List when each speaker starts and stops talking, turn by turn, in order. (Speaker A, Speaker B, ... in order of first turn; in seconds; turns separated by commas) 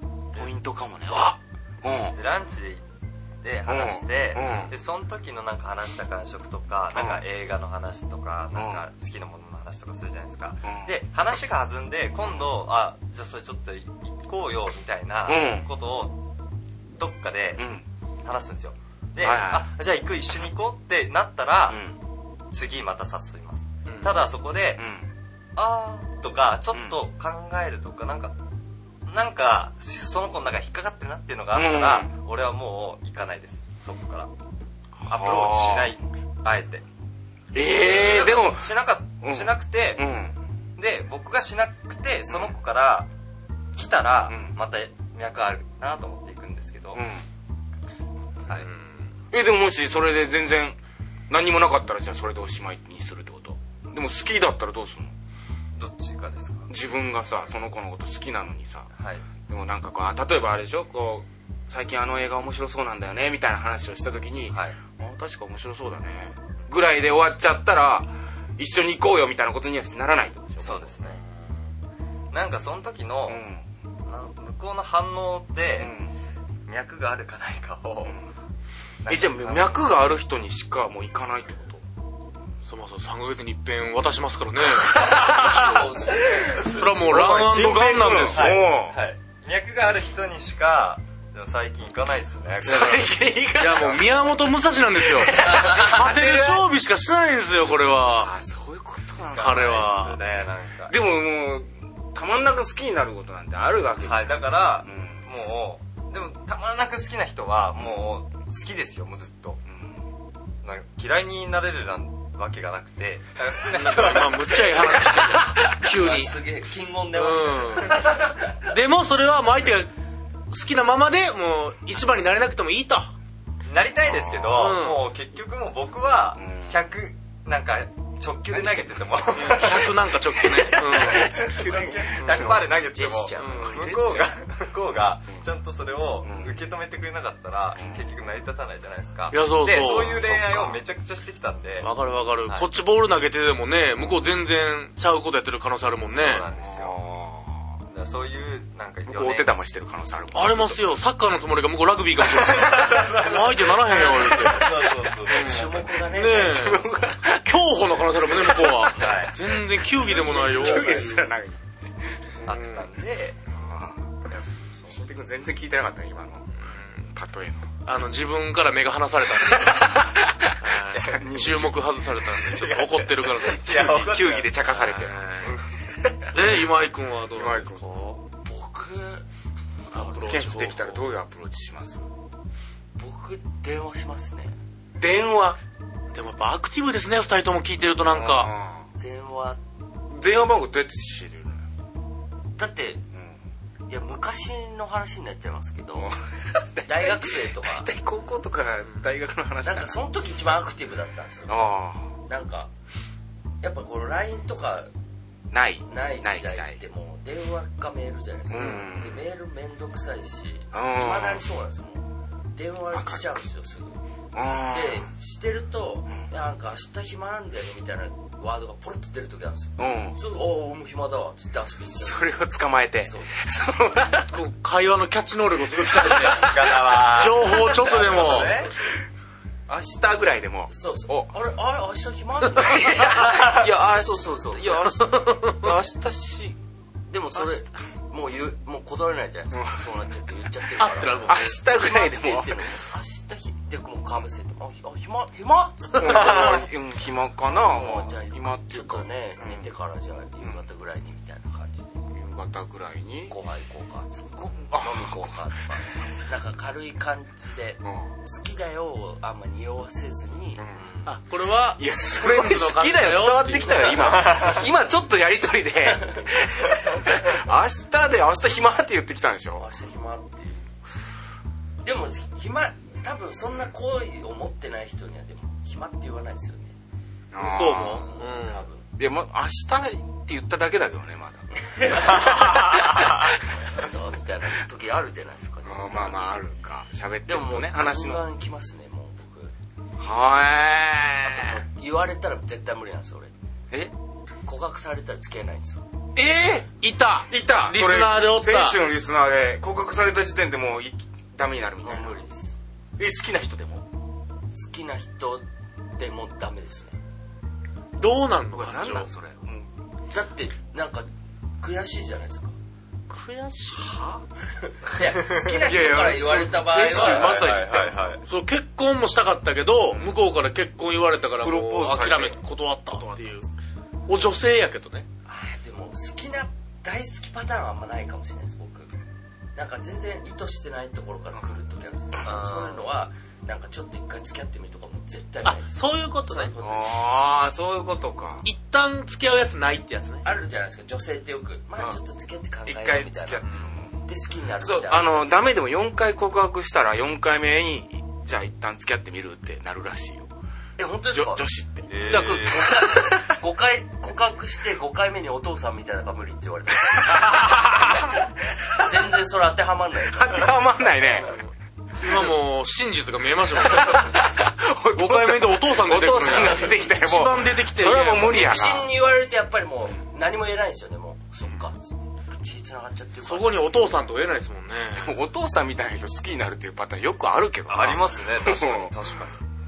Speaker A: 0.3-2.1, Speaker B: 2.1-2.9, Speaker B: 3.4-16.2, Speaker A: 3.7-4.7, Speaker A: 6.9-7.2, Speaker A: 8.5-8.8, Speaker A: 10.6-10.9, Speaker A: 15.2-15.7, Speaker B: 16.9-17.7, Speaker A: 17.6-17.8, Speaker B: 18.2-21.8, Speaker A: 19.2-19.7, Speaker A: 21.7-22.0, Speaker B: 22.5-24.9, Speaker C: 23.9-24.2, Speaker A: 24.8-25.1, Speaker B: 25.5-28.4, Speaker A: 26.7-27.0, Speaker B: 29.0-34.3, Speaker A: 31.5-32.1, Speaker A: 35.0-36.0, Speaker B: 35.1-36.9, Speaker A: 37.5-40.4, Speaker B: 37.6-40.1, Speaker B: 40.8-43.1, Speaker A: 42.3-42.5, Speaker B: 43.7-47.0, Speaker A: 44.3-44.5, Speaker A: 46.9-47.2, Speaker B: 48.5-48.7, Speaker C: 48.5-48.9, Speaker A: 49.3-50.8, Speaker A: 51.3-55.1, Speaker B: 55.8-56.7, Speaker A: 56.7-58.9, Speaker B: 59.0-59.2, Speaker A: 59.5-71.1, Speaker B: 64.5-64.8, Speaker B: 70.6-71.3, Speaker B: 72.3-73.4, Speaker A: 73.2-73.6, Speaker B: 74.1-76.0, Speaker A: 75.8-76.1, Speaker B: 76.7-78.2, Speaker B: 79.0-79.8, Speaker A: 79.1-81.8, Speaker C: 82.7-85.9, Speaker A: 84.7-89.0, Speaker D: 84.9-86.8, Speaker C: 86.6-88.6, Speaker B: 88.3-93.1, Speaker A: 92.6-94.1, Speaker C: 92.6-98.3, Speaker A: 95.0-96.7, Speaker A: 98.1-100.0, Speaker C: 99.3-100.2, Speaker B: 99.4-101.0, Speaker A: 100.9-105.2, Speaker B: 104.0-109.6, Speaker A: 107.8-108.0, Speaker A: 109.7-110.0, Speaker B: 110.6-115.3, Speaker C: 113.7-116.3, Speaker D: 115.7-118.0, Speaker C: 117.1-118.0, Speaker C: 118.6-119.9, Speaker C: 120.5-123.1, Speaker B: 123.7-141.9, Speaker A: 124.0-124.8, Speaker C: 124.5-125.1, Speaker A: 126.3-126.8, Speaker A: 128.5-129.7, Speaker C: 129.3-132.6, Speaker A: 130.3-132.7, Speaker D: 132.9-133.7, Speaker C: 133.4-133.9, Speaker A: 133.6-134.4, Speaker A: 136.2-136.6, Speaker A: 137.7-138.0, Speaker C: 139.3-140.8, Speaker C: 141.8-146.5, Speaker B: 146.1-147.0, Speaker A: 146.5-147.8, Speaker B: 147.9-149.5, Speaker A: 149.1-150.8, Speaker C: 150.3-156.8, Speaker B: 152.3-155.8, Speaker A: 154.0-155.0, Speaker D: 155.2-157.2, Speaker A: 156.3-157.6, Speaker C: 157.4-161.1, Speaker A: 158.2-161.7, Speaker B: 158.9-159.3, Speaker D: 159.9-161.3, Speaker C: 162.4-162.9, Speaker B: 162.4-163.4, Speaker A: 163.5-164.2, Speaker A: 164.8-166.5, Speaker C: 166.6-167.1, Speaker A: 167.1-167.8, Speaker C: 167.8-170.0, Speaker A: 169.4-171.9, Speaker C: 170.6-174.0, Speaker B: 170.9-171.2, Speaker B: 172.4-174.9, Speaker A: 173.6-176.6, Speaker C: 174.7-175.6, Speaker C: 176.3-178.1, Speaker A: 177.3-178.0, Speaker D: 178.2-179.2, Speaker C: 179.9-181.0, Speaker A: 179.9-182.0, Speaker D: 183.0-184.5, Speaker A: 185.0-185.6, Speaker C: 186.1-188.5, Speaker A: 188.1-188.8, Speaker D: 189.0-189.6, Speaker A: 190.1-191.7, Speaker D: 192.5-193.0, Speaker D: 193.9-196.1, Speaker A: 196.0-200.0, Speaker D: 196.8-197.9, Speaker D: 199.6-201.6, Speaker A: 201.5-202.1, Speaker D: 202.2-202.7, Speaker D: 203.6-204.9, Speaker A: 205.5-206.8, Speaker D: 205.9-214.0, Speaker A: 208.5-209.2, Speaker A: 210.7-211.4, Speaker A: 212.9-213.4, Speaker A: 214.3-215.1, Speaker D: 214.7-222.4, Speaker A: 219.8-220.2, Speaker A: 221.9-224.3, Speaker D: 223.0-223.4, Speaker C: 224.3-228.6, Speaker A: 225.8-226.8, Speaker B: 226.2-228.8, Speaker A: 228.1-228.7, Speaker A: 229.7-231.3, Speaker D: 230.7-234.9, Speaker A: 232.6-236.6, Speaker C: 234.9-235.7, Speaker D: 237.1-246.7, Speaker A: 239.5-239.8, Speaker C: 240.8-241.6, Speaker A: 241.2-242.8, Speaker A: 246.0-249.7, Speaker D: 247.5-252.0, Speaker A: 252.1-253.3, Speaker D: 253.3-260.6, Speaker A: 254.3-255.3, Speaker A: 257.8-258.1, Speaker A: 260.6-260.9, Speaker C: 261.1-264.6, Speaker A: 261.8-269.7, Speaker D: 265.9-266.2, Speaker D: 269.6-270.7, Speaker D: 271.8-276.8, Speaker A: 277.3-278.1, Speaker C: 277.4-278.6, Speaker D: 277.7-278.9, Speaker A: 279.0-283.3, Speaker D: 281.5-286.3, Speaker A: 285.6-288.2, Speaker D: 287.2-289.5, Speaker A: 290.0-291.6, Speaker D: 291.2-293.3, Speaker D: 294.4-295.8, Speaker A: 296.1-296.7, Speaker C: 296.8-298.8, Speaker A: 297.3-302.2, Speaker D: 301.8-302.6, Speaker A: 303.0-303.9, Speaker D: 304.5-305.4, Speaker D: 306.0-307.0, Speaker C: 308.0-309.1, Speaker A: 308.5-309.7, Speaker D: 310.1-311.1, Speaker D: 311.6-312.5, Speaker C: 313.1-313.9, Speaker A: 313.7-314.2, Speaker D: 314.6-317.3, Speaker A: 315.6-318.1, Speaker C: 316.9-323.4, Speaker B: 316.9-318.2, Speaker A: 319.9-320.2, Speaker A: 321.4-323.4, Speaker C: 324.1-325.1, Speaker D: 325.2-328.9, Speaker D: 329.5-337.0, Speaker C: 332.2-332.8, Speaker C: 335.4-336.5, Speaker A: 336.6-338.4, Speaker C: 338.4-340.2, Speaker D: 340.2-343.4, Speaker A: 342.6-343.9, Speaker D: 344.0-345.5, Speaker A: 344.6-350.3, Speaker D: 350.8-351.5, Speaker A: 351.1-353.2, Speaker B: 351.9-352.7, Speaker D: 352.0-357.6, Speaker C: 352.1-352.4, Speaker A: 357.1-357.4, Speaker D: 358.8-360.6, Speaker A: 360.1-361.3, Speaker C: 362.0-364.3, Speaker A: 363.6-368.9, Speaker C: 364.9-368.7, Speaker D: 368.2-373.7, Speaker C: 373.2-375.2, Speaker A: 374.9-379.1, Speaker B: 377.7-379.4